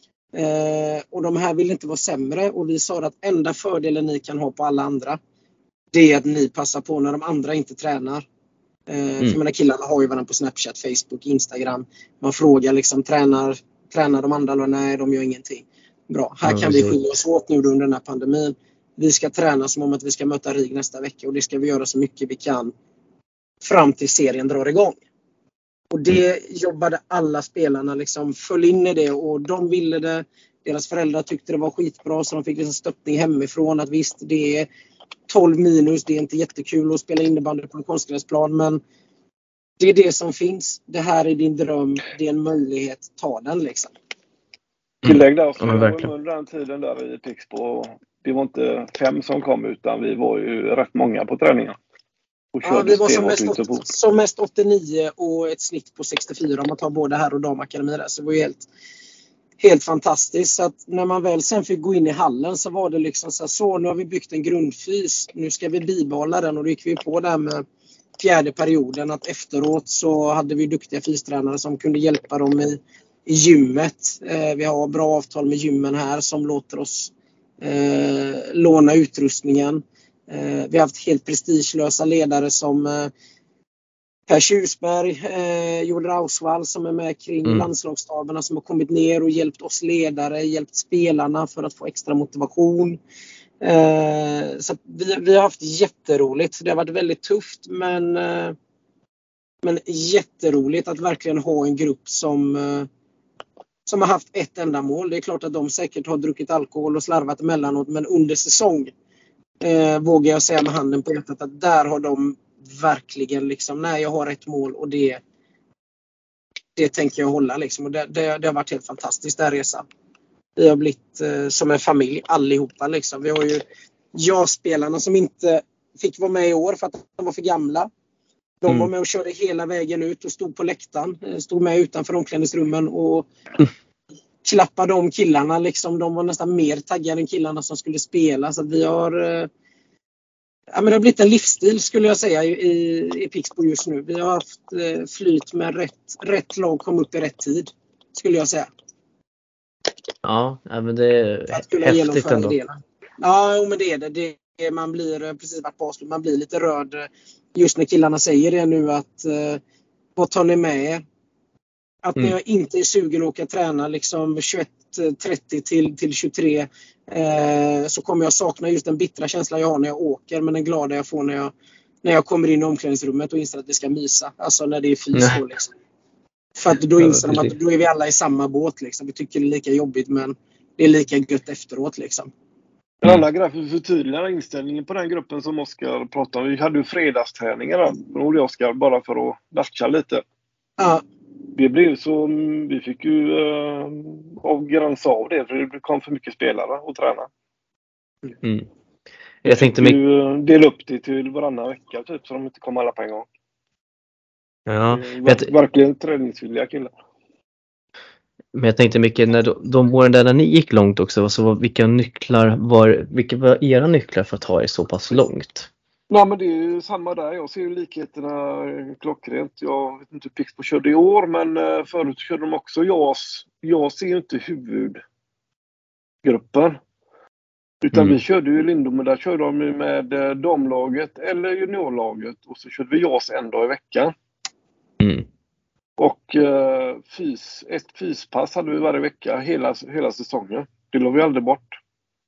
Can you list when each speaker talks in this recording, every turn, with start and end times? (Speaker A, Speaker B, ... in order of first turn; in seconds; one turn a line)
Speaker A: 0.3-5.2
Speaker A: 5.9-8.3
Speaker A: 8.9-22.7
Speaker B: 16.4-17.0
Speaker A: 23.6-25.0
Speaker A: 25.9-34.7
Speaker A: 35.3-38.8
Speaker A: 39.8-43.9
Speaker C: 45.0-51.8
Speaker B: 45.0-46.1
Speaker C: 52.5-53.9
Speaker A: 52.6-58.7
Speaker A: 59.6-67.6
Speaker A: 68.2-83.1
Speaker A: 84.3-93.0
Speaker A: 93.6-98.6
Speaker A: 99.6-102.9
Speaker A: 103.9-108.9
Speaker A: 109.6-115.2
Speaker A: 116.8-119.8
Speaker A: 120.6-123.6
Speaker A: 124.1-127.9
Speaker A: 128.6-133.3
Speaker A: 134.4-139.5
Speaker A: 140.7-148.7
Speaker B: 150.2-152.6
Speaker A: 151.5-159.6
Speaker A: 160.2-161.0
Speaker A: 162.0-171.5
Speaker A: 172.0-175.7
Speaker B: 175.1-175.4
Speaker A: 176.6-182.3
Speaker B: 177.0-177.5
Speaker C: 183.0-190.2
Speaker A: 190.8-191.0
Speaker C: 191.6-197.3
Speaker B: 198.4-198.7
Speaker B: 199.4-200.0
Speaker C: 199.4-203.3
Speaker B: 204.7-205.5
Speaker C: 204.9-206.9
Speaker B: 208.5-215.7
Speaker C: 216.1-225.0
Speaker C: 226.2-226.8
Speaker C: 227.8-234.1
Speaker B: 227.9-228.2
Speaker B: 235.0-235.3
Speaker C: 236.0-241.8